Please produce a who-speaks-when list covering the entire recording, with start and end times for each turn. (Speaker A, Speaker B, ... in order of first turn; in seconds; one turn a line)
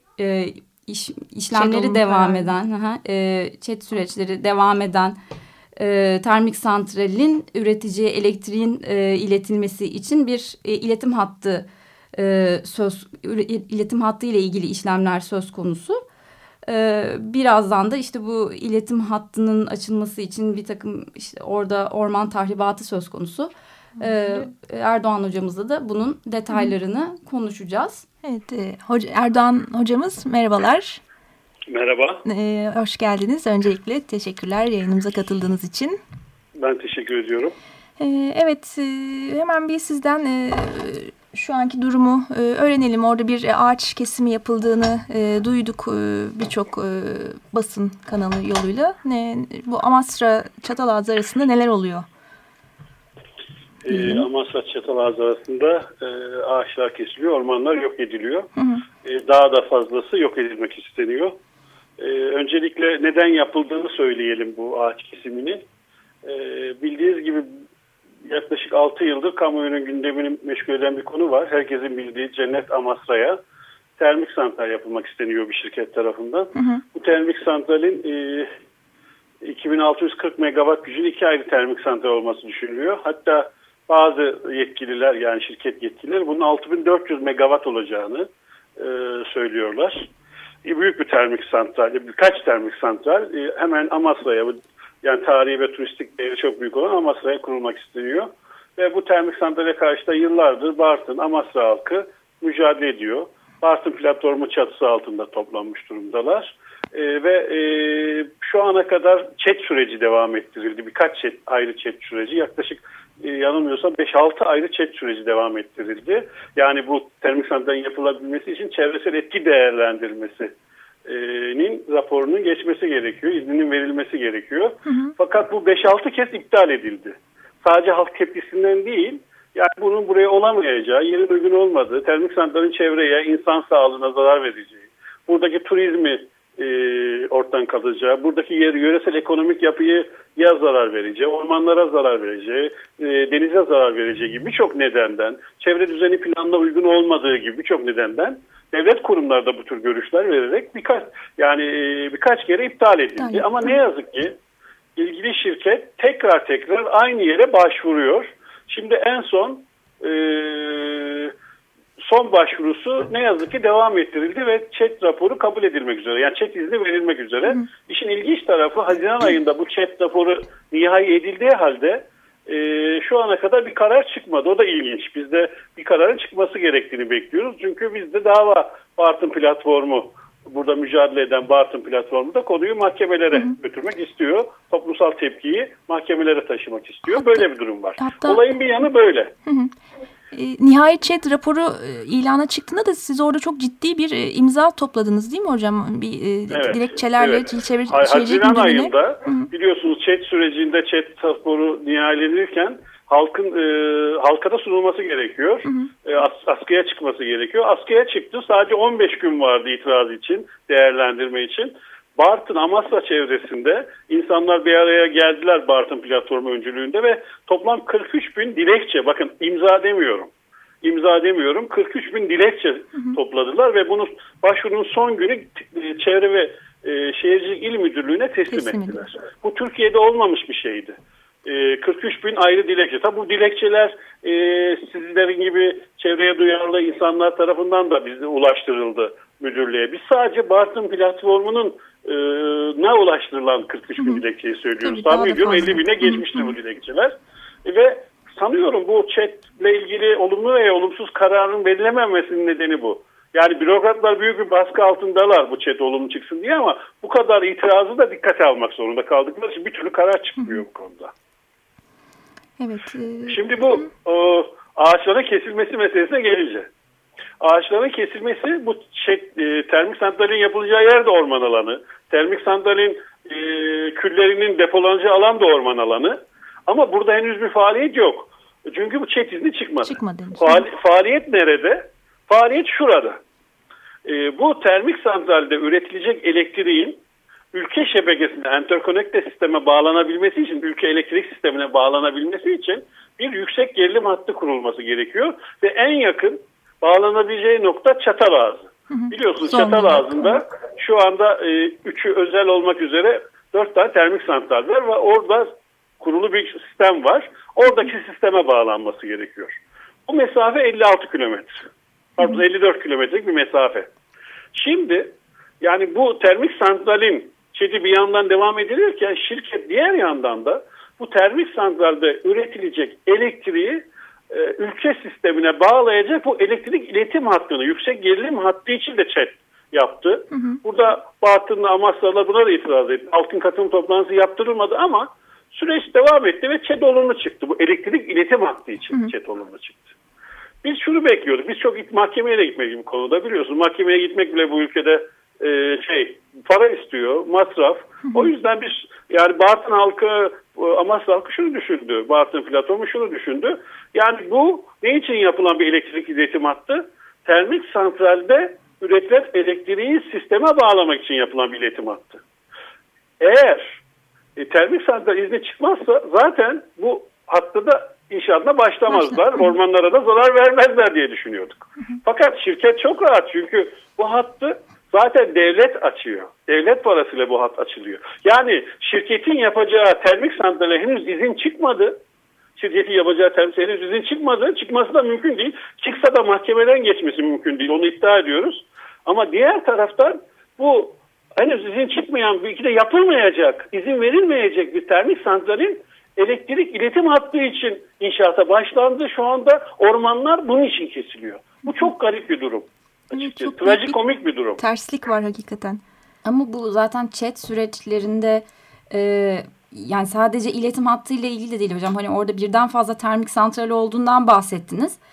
Speaker A: 0.2-5.2
Speaker B: 1.5-2.5
Speaker A: 5.8-16.0
Speaker A: 16.6-28.1
Speaker B: 24.0-24.5
Speaker B: 28.2-31.0
Speaker C: 31.7-32.2
Speaker B: 32.2-36.0
Speaker C: 36.6-37.6
Speaker B: 38.0-52.1
Speaker C: 53.8-58.5
Speaker B: 53.9-54.3
Speaker B: 58.6-58.9
Speaker C: 59.0-61.4
Speaker C: 62.0-65.6
Speaker C: 66.2-67.5
Speaker C: 68.3-73.4
Speaker C: 74.0-78.5
Speaker B: 76.6-76.8
Speaker C: 79.4-90.1
Speaker C: 90.7-120.5
Speaker C: 121.1-154.3
Speaker B: 124.9-125.1
Speaker B: 153.2-153.8
Speaker C: 155.0-161.3
Speaker C: 162.0-189.3
Speaker B: 187.1-187.5
Speaker B: 188.0-188.5
Speaker B: 189.4-189.7
Speaker B: 190.3-199.5
Speaker C: 196.5-220.3
Speaker C: 220.8-261.1
Speaker B: 228.5-229.1
Speaker B: 244.8-246.6
Speaker B: 260.4-260.6
Speaker B: 262.6-263.8
Speaker C: 263.3-266.7
Speaker C: 267.4-283.2
Speaker B: 279.8-280.7
Speaker C: 284.1-287.0
Speaker C: 287.5-309.6
Speaker B: 298.9-300.4
Speaker C: 310.1-311.6
Speaker C: 312.2-313.9
Speaker C: 314.5-339.9
Speaker B: 330.3-330.6
Speaker C: 340.6-362.2
Speaker B: 348.1-348.3
Speaker C: 363.2-363.8
Speaker C: 364.4-382.0
Speaker B: 368.9-369.4
Speaker C: 382.6-404.6
Speaker B: 403.1-404.0
Speaker B: 404.6-405.8
Speaker A: 406.2-415.0